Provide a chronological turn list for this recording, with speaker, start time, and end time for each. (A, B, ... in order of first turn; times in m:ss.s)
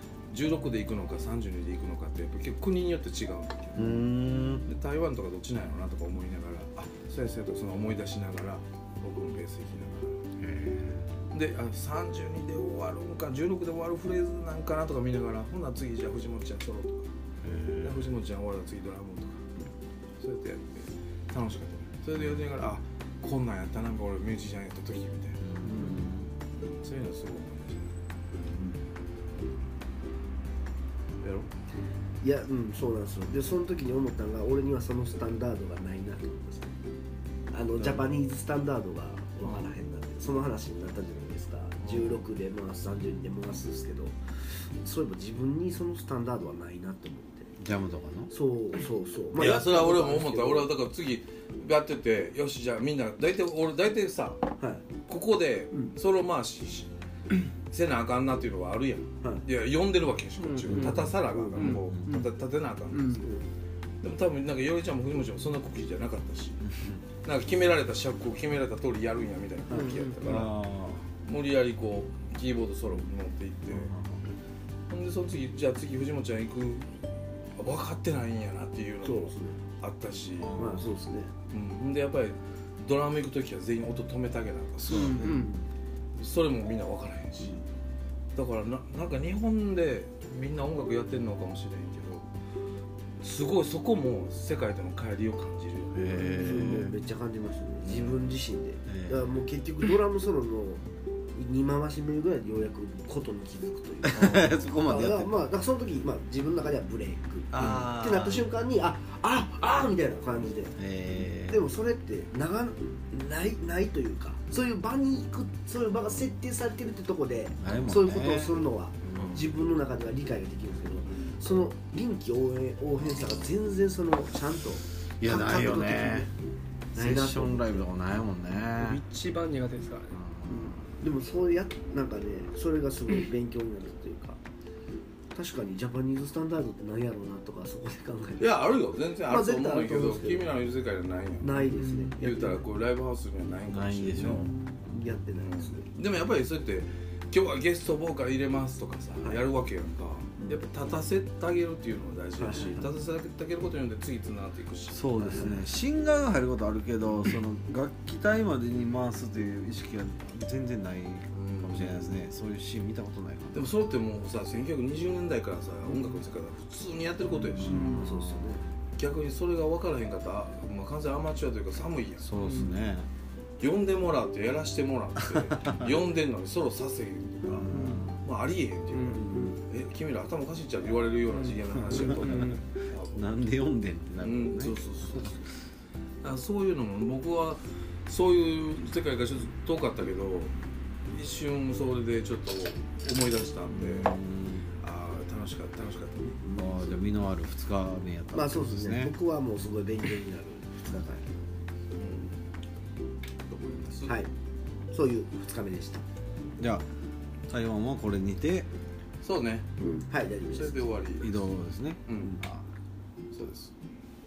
0:00.3-0:04.1 A
0:03.8-0:04.6 B
0:04.6-0:10.2 A
0:10.4-0:11.1 B
0:11.3-0:17.1 A
0:17.4-0:18.1 B
0:17.8-0:19.5 A
0:20.2-0:25.4 A
0:22.2-0:22.4 B
0:25.4-0:26.3 B
0:25.6-0:26.0 C
0:26.5-0:28.7 A
0:31.2-0:31.5 A
0:32.2-0:36.8 C
0:37.5-0:47.5 C
0:39.4-0:39.7 A
0:41.8-0:42.2 A
0:47.6-0:48.3 B
0:48.3-0:50.7 C
0:49.3-0:54.4 A
0:54.6-0:54.8 C
0:55.0-0:56.9 A
0:57.7-1:03.4 A
1:00.4-1:02.3 D
1:00.7-1:01.1 B
1:01.3-1:01.8 C
1:01.8-1:02.0 B
1:02.9-1:03.2 D
1:04.0-1:06.6 A
1:06.6-1:07.0 B
1:07.2-1:10.6 A
1:09.7-1:10.0 C
1:09.7-1:10.2 D
1:10.2-1:11.1 B
1:11.2-1:13.9 A
1:13.7-1:14.4 B
1:14.9-1:16.9 A
1:17.6-1:20.8 A
1:19.0-1:19.6 C
1:20.4-1:20.9 B
1:20.6-1:21.3 C
1:21.5-1:25.2 A
1:24.8-1:25.5 B
1:24.9-1:25.5 D
1:25.2-1:25.7 C
1:26.2-1:27.6 A
1:27.4-1:27.6 C
1:28.4-1:32.3 A
1:33.2-1:36.9 A
1:36.0-1:37.0 B
1:36.2-1:50.8 C
1:37.8-1:38.3 B
1:38.9-1:39.2 B
1:44.0-1:45.3 B
1:44.1-1:44.5 A
1:47.5-1:48.6 A
1:50.8-1:51.6 B
1:51.5-2:06.3 C
1:57.6-1:59.4 B
2:05.2-2:06.3 B
2:06.9-2:09.0 B
2:07.0-2:07.9 C
2:08.8-2:10.1 D
2:10.1-2:10.8 B
2:10.5-2:14.4 C
2:15.3-2:18.6 C
2:18.4-2:21.6 A
2:19.2-2:20.5 C
2:21.4-2:22.6 C
2:21.7-2:22.2 D
2:22.2-2:24.5 A
2:23.7-2:25.0 B
2:24.2-2:25.9 C
2:25.3-2:35.5 A
2:32.4-2:32.9 C
2:34.9-2:43.7 B
2:35.2-2:35.6 C
2:41.3-2:42.2 A
2:43.5-2:48.0 A
2:47.4-2:48.7 B
2:47.7-2:48.0 D
2:47.8-2:48.6 C
2:49.0-2:52.3 A
2:52.2-2:53.1 B
2:52.4-2:52.8 D
2:53.6-3:03.3 A
2:55.2-2:55.9 B
2:57.4-2:58.2 B
2:57.7-2:58.0 D
2:59.0-2:59.6 C
3:01.3-3:02.6 D
3:01.8-3:05.3 B
3:04.2-3:05.5 A
3:06.2-3:10.5 A
3:11.1-3:14.1 A
3:13.7-3:14.7 B
3:14.8-3:16.4 A
3:16.4-3:17.0 C
3:16.6-3:19.2 B
3:18.3-3:21.2 C
3:22.0-3:22.4 A
3:23.5-3:24.2 A
3:24.9-3:26.0 C
3:26.6-3:26.8 B
3:27.5-3:28.7 B
3:29.2-3:29.7 A
3:29.8-3:30.9 C
3:30.5-3:31.4 A
3:31.2-3:32.6 B
3:32.1-3:32.4 A
3:33.3-3:33.7 A